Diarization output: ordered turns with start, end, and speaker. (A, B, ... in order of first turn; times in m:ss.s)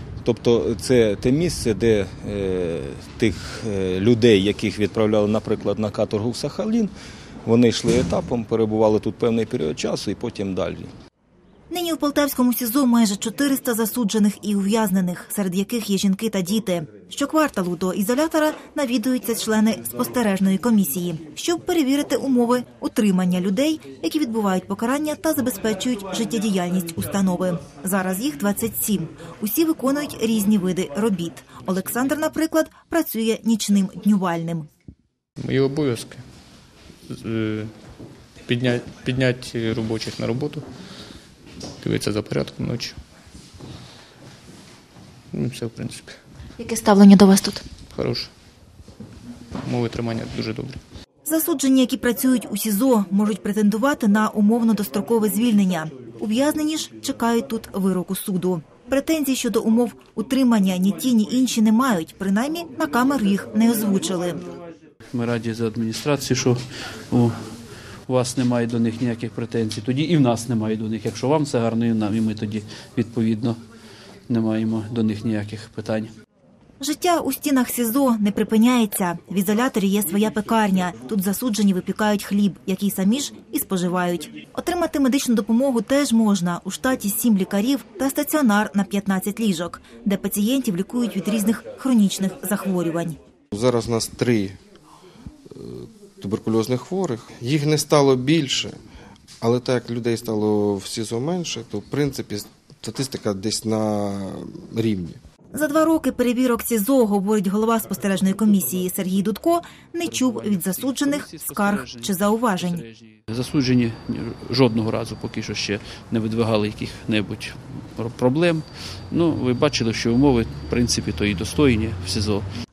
0:00.2-0:06.9 A
0:07.4-0:10.9 A
0:11.7-0:34.7 B
0:35.4-0:36.2 C
0:37.1-0:37.7 C
0:38.5-0:40.6 C
0:41.8-0:43.0 C
0:45.3-0:46.2 C
0:46.6-0:47.6 B
0:47.9-0:48.3 C
0:49.6-0:50.8 C
0:51.3-1:04.4 B
1:05.1-1:07.4 D
1:08.1-1:13.6 D
1:14.3-1:16.1 D
1:16.8-1:33.2 B
1:33.5-1:34.6 E
1:35.5-1:38.8 E
1:39.4-1:45.2 E
1:45.5-1:52.8 B
1:50.0-2:02.5 D